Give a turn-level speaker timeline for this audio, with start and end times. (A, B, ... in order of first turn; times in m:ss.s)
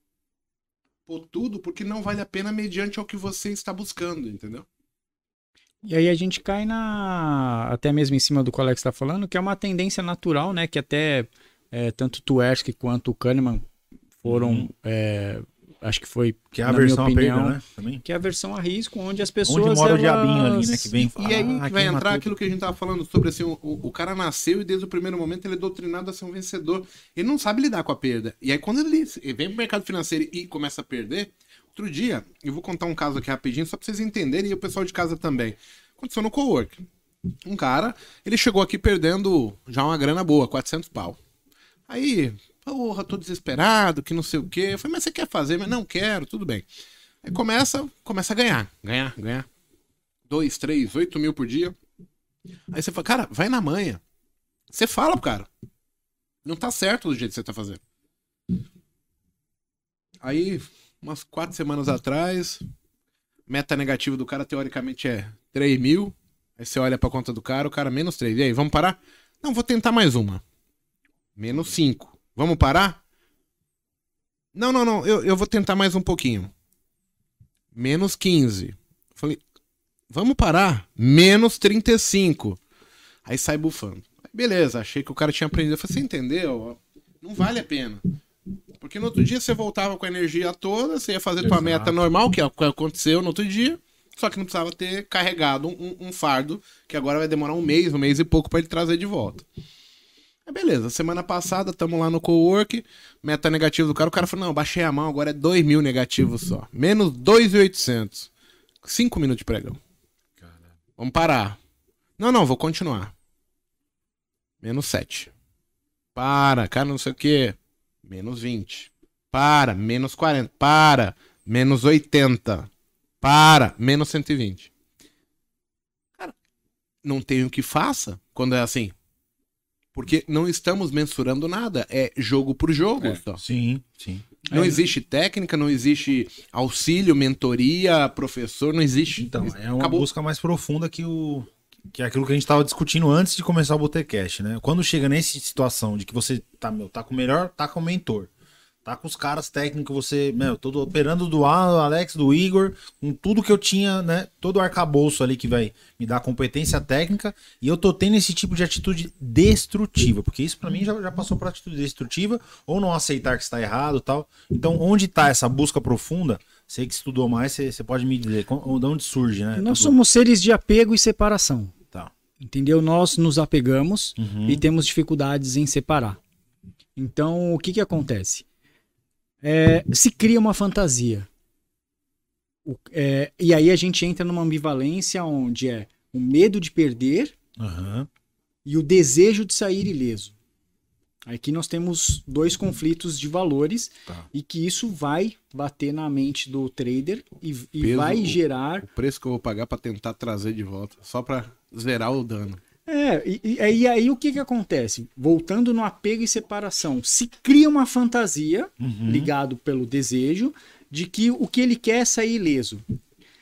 0:01.1-0:04.6 A
0:05.8-0:13.7 B
0:14.2-0:20.9 B
0:14.2-0:14.7 C
0:16.5-0:18.0 C
0:19.4-0:22.4 C
0:21.1-0:36.8 A
0:37.4-0:41.2 A
0:41.9-0:46.7 A
0:47.2-0:49.5 A
0:50.3-0:51.8 A
0:52.7-0:54.0 A
0:54.7-0:55.5 A
0:56.4-0:57.8 A
1:00.2-1:02.6 A
1:03.5-1:10.4 A
1:11.4-1:13.0 A
1:14.5-1:16.5 A
1:17.7-1:19.4 A
1:20.1-1:22.6 A
1:23.2-1:28.0 A
1:28.8-1:39.4 A
1:31.4-1:32.0 C
1:40.5-1:48.3 A
1:48.8-1:49.8 A
1:51.0-1:51.6 A
1:52.2-1:53.1 A
1:54.6-1:55.3 A
1:56.1-2:02.7 A
2:03.2-2:04.7 A
2:07.0-2:08.9 A
2:09.9-2:13.4 A
2:13.4-2:14.4 C
2:14.5-2:20.1 A
2:14.5-2:14.8 B
2:19.2-2:28.3 C
2:28.8-2:50.0 C
2:49.6-2:51.7 B
2:52.4-2:56.2 B
2:54.2-2:54.6 C
2:57.0-2:58.4 B
2:59.4-3:01.3 B
3:02.6-3:07.3 B
3:07.6-3:08.1 C
3:08.6-3:10.3 B
3:11.3-3:18.8 B
3:17.8-3:22.6 A
3:22.9-3:32.8 B
3:28.8-3:29.3 C